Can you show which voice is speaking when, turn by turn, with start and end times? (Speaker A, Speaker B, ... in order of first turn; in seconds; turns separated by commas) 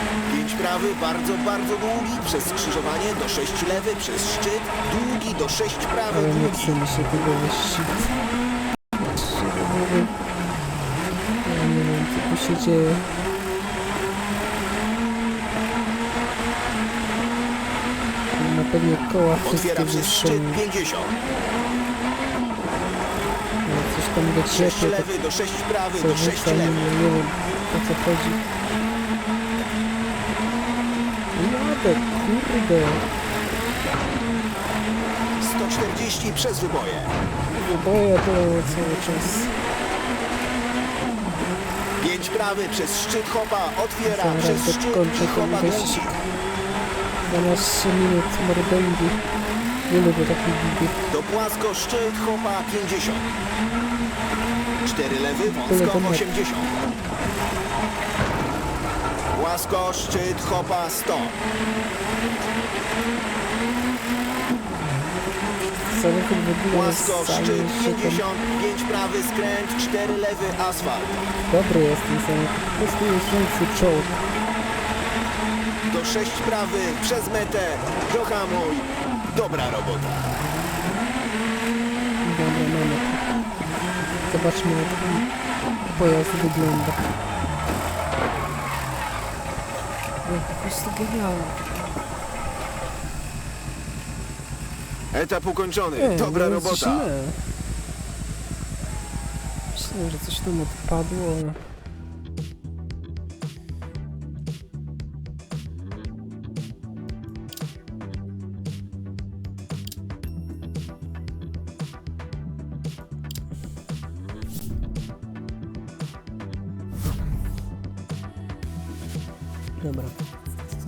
Speaker A: 0.3-6.8, Speaker B: 6.1-8.1, Speaker B: 9.0-10.1, Speaker B: 11.4-13.2, Speaker B: 18.4-20.6, Speaker A: 19.4-21.1, Speaker B: 23.6-25.1, Speaker A: 24.5-27.0, Speaker B: 26.0-28.5, Speaker B: 31.4-33.0, Speaker A: 35.4-37.2, Speaker B: 37.5-39.6, Speaker A: 42.0-46.1, Speaker B: 44.0-46.3, Speaker B: 47.2-49.2, Speaker B: 49.9-51.1, Speaker A: 51.1-53.3, Speaker A: 54.8-56.8, Speaker B: 55.5-56.3, Speaker A: 59.3-61.4, Speaker B: 65.9-68.2, Speaker A: 66.7-71.2, Speaker B: 71.5-74.2, Speaker A: 75.9-80.3, Speaker B: 82.2-83.3, Speaker B: 84.3-85.3, Speaker B: 85.9-87.0, Speaker B: 90.2-91.6, Speaker A: 95.1-97.1, Speaker B: 96.0-97.5, Speaker B: 99.7-101.6, Speaker B: 119.8-120.2